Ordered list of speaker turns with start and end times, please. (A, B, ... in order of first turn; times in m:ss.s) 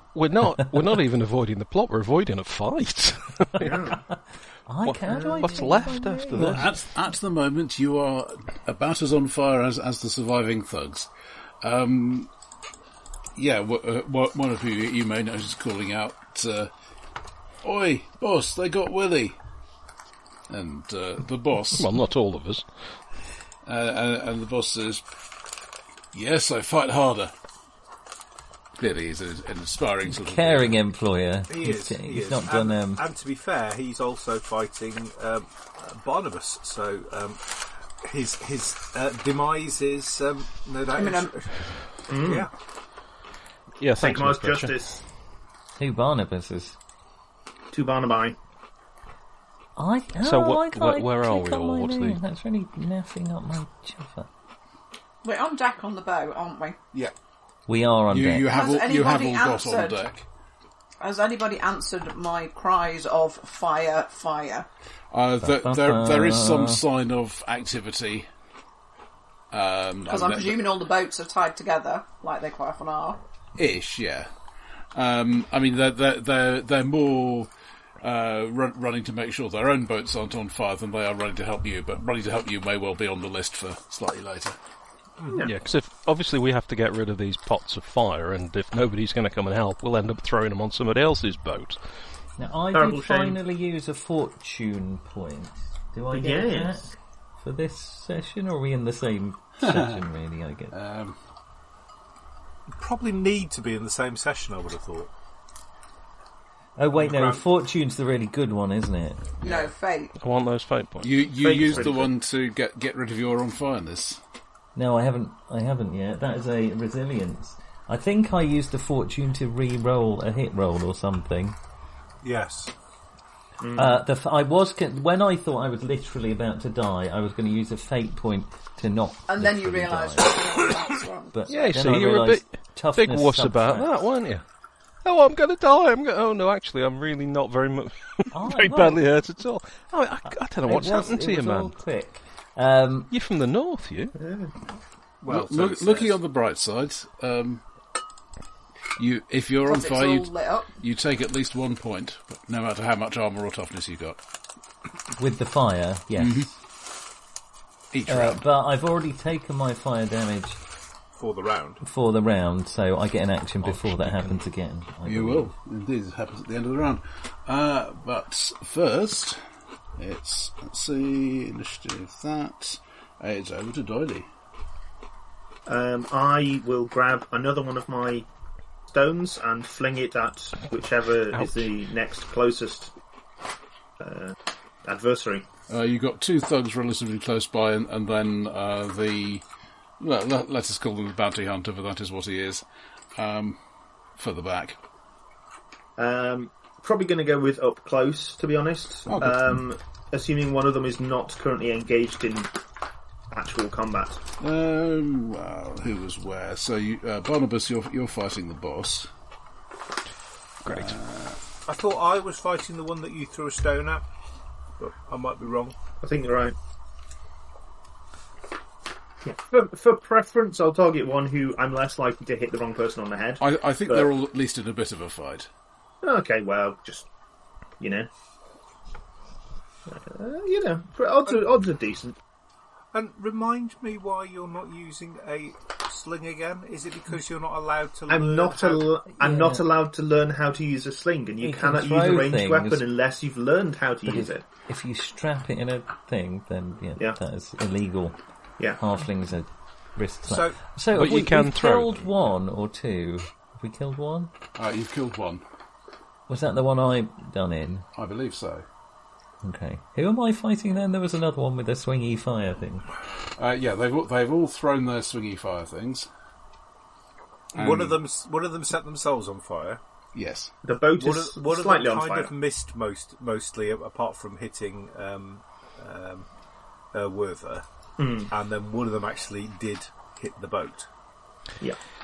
0:00.1-0:03.8 A
0:03.6-0:04.0 B
0:03.9-0:06.7 C
0:04.8-0:06.7 A
0:05.0-0:05.8 B
0:06.3-0:11.1 D
0:11.6-0:12.3 D
0:13.4-0:16.7 D
0:17.6-0:19.4 D
0:20.5-0:21.9 D
0:21.7-0:22.7 A
0:23.6-0:25.0 D
0:26.1-0:27.3 D
0:28.8-0:30.8 D
0:30.1-0:33.0 C
0:31.5-0:42.5 E
0:40.9-0:41.3 F
0:42.1-0:42.5 B
0:43.8-0:44.8 A
0:44.0-0:45.0 B
0:45.8-0:46.8 C
0:47.7-0:48.4 B
0:49.8-0:54.3 C
0:50.2-0:52.2 A
0:55.2-0:56.8 F
0:57.7-0:58.5 C
0:58.1-1:00.2 D
0:58.4-1:00.0 F
1:01.0-1:04.7 F
1:05.1-1:08.3 D
1:05.4-1:06.8 C
1:09.5-1:10.6 D
1:10.0-1:13.2 F
1:13.6-1:14.3 D
1:14.9-1:24.6 D
1:25.2-1:25.5 E
1:25.4-1:31.8 A
1:32.4-1:40.7 C
1:32.7-1:33.4 B
1:36.1-1:36.8 B
1:39.6-1:40.0 D
1:40.7-1:41.2 D
1:42.7-1:45.1 E
1:46.8-1:49.4 C
1:47.0-1:47.4 E
1:49.4-1:50.1 F
1:50.2-1:51.3 A
1:51.0-1:54.2 D
1:51.4-1:52.1 B
1:54.7-2:01.6 C
2:02.2-2:02.7 E
2:03.6-2:04.0 B
2:03.8-2:10.4 C
2:09.3-2:11.8 F
2:11.3-2:14.0 C
2:11.5-2:14.4 A
2:15.0-2:21.7 A
2:18.3-2:19.0 C
2:20.2-2:23.1 C
2:23.1-2:24.2 A
2:24.2-2:24.5 B
2:25.2-2:26.2 E
2:25.3-2:27.6 D
2:29.0-2:34.2 D
2:29.6-2:30.7 F
2:35.2-2:36.5 C
2:36.2-2:36.5 D
2:37.9-2:38.4 D
2:38.1-2:40.6 C
2:41.1-2:41.8 E
2:41.8-2:45.5 C
2:43.6-2:44.4 A
2:45.0-2:49.4 D
2:50.0-2:54.3 D
2:55.6-2:58.3 B
2:58.9-3:02.9 B
3:01.3-3:01.7 A
3:04.0-3:05.4 B
3:05.7-3:09.4 D
3:10.0-3:13.6 D
3:14.1-3:14.8 D
3:16.0-3:22.5 B
3:19.1-3:19.4 D
3:23.3-3:24.2 B
3:24.4-3:29.1 D
3:30.6-3:31.0 A
3:30.6-3:31.4 D
3:31.6-3:34.0 E
3:34.8-3:35.7 E
3:36.0-3:36.6 B
3:39.2-3:44.1 B
3:43.4-3:45.5 D
3:46.0-3:47.1 B
3:47.8-3:48.1 B
3:49.9-3:52.2 B
3:52.9-3:58.9 E
3:58.1-4:04.4 B
3:59.1-3:59.6 C
4:01.4-4:02.8 C
4:04.0-4:08.2 C
4:08.8-4:14.3 C
4:10.3-4:10.6 E
4:10.9-4:12.1 A
4:14.6-4:15.4 D
4:16.3-4:17.9 C
4:17.9-4:18.6 D
4:19.4-4:22.8 C
4:23.4-4:26.1 D
4:27.5-4:29.8 E
4:27.5-4:28.0 D
4:30.1-4:30.5 D
4:30.6-4:32.3 B
4:31.0-4:36.3 E
4:36.9-4:37.6 E
4:38.0-4:38.3 B
4:38.3-4:40.9 E